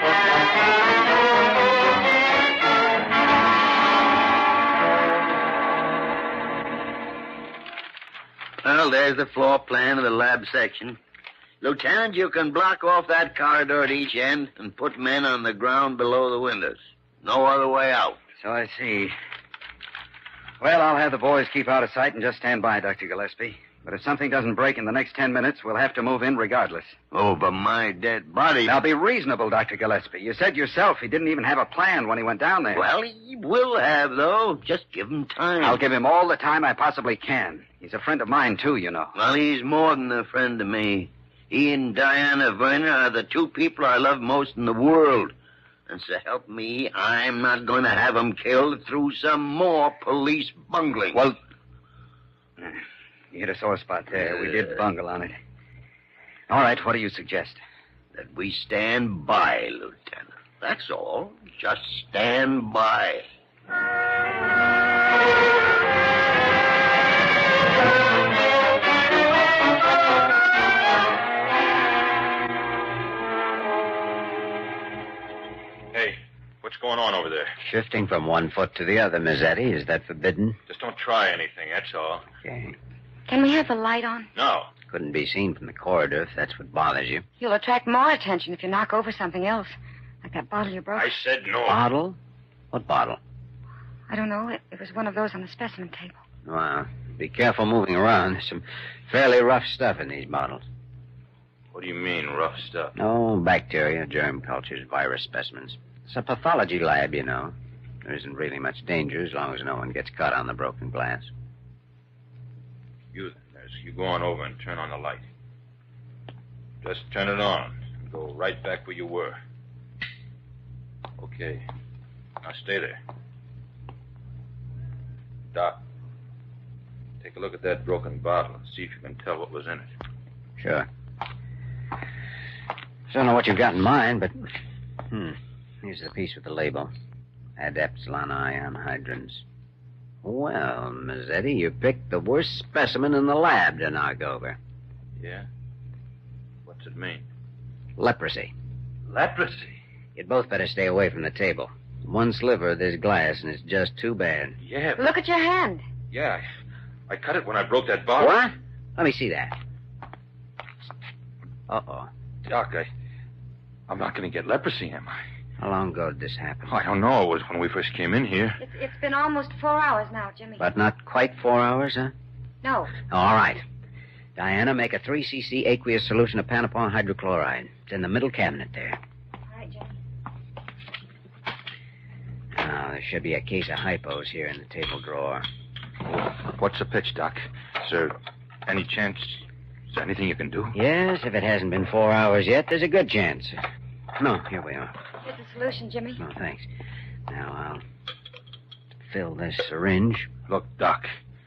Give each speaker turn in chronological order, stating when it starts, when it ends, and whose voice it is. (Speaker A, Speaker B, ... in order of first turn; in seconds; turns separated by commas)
Speaker A: 8.6-11.0, Speaker A: 11.6-18.2, Speaker B: 18.4-19.1, Speaker B: 20.6-26.9, Speaker A: 27.1-28.8, Speaker B: 28.6-32.9, Speaker A: 32.7-35.8, Speaker B: 35.6-39.1, Speaker A: 39.1-45.3, Speaker A: 45.9-51.2, Speaker B: 53.3-55.3, Speaker B: 56.5-57.6, Speaker A: 58.1-63.2, Speaker C: 75.9-77.5, Speaker D: 77.6-80.6, Speaker C: 80.7-82.3, Speaker D: 82.4-82.7, Speaker E: 83.3-84.3, Speaker C: 84.3-84.7, Speaker D: 84.9-87.2, Speaker E: 87.4-91.1, Speaker C: 90.9-91.8, Speaker D: 91.7-92.2, Speaker D: 92.7-93.2, Speaker E: 94.1-96.2, Speaker D: 96.4-100.6, Speaker C: 101.7-102.9, Speaker D: 103.0-111.3, Speaker C: 113.1-115.2, Speaker C: 116.8-119.4, Speaker C: 121.2-121.6, Speaker C: 122.4-123.0, Speaker C: 125.5-125.8, Speaker C: 127.2-129.9, Speaker D: 130.6-130.9, Speaker D: 133.1-134.5, Speaker D: 135.1-136.9, Speaker D: 137.6-139.4, Speaker D: 140.2-144.6, Speaker C: 145.2-145.4, Speaker C: 146.6-147.2, Speaker D: 148.0-148.5, Speaker C: 149.1-149.8, Speaker D: 150.2-154.6, Speaker C: 154.6-155.1, Speaker E: 155.0-155.8, Speaker C: 156.1-156.4, Speaker C: 157.1-158.4, Speaker D: 158.2-159.5, Speaker D: 161.7-162.1, Speaker C: 162.4-162.9, Speaker C: 163.9-165.2, Speaker D: 165.6-166.8, Speaker C: 166.7-168.6, Speaker E: 168.6-170.7, Speaker D: 170.6-172.1, Speaker E: 172.6-172.9, Speaker D: 173.0-173.6, Speaker D: 174.3-179.0, Speaker E: 179.5-179.9, Speaker D: 182.5-185.4, Speaker C: 186.0-188.1, Speaker C: 188.7-190.7, Speaker D: 190.7-193.6, Speaker D: 194.2-194.9, Speaker E: 195.2-196.2, Speaker D: 196.2-196.7, Speaker D: 197.3-197.8, Speaker D: 199.1-200.3, Speaker C: 200.5-201.1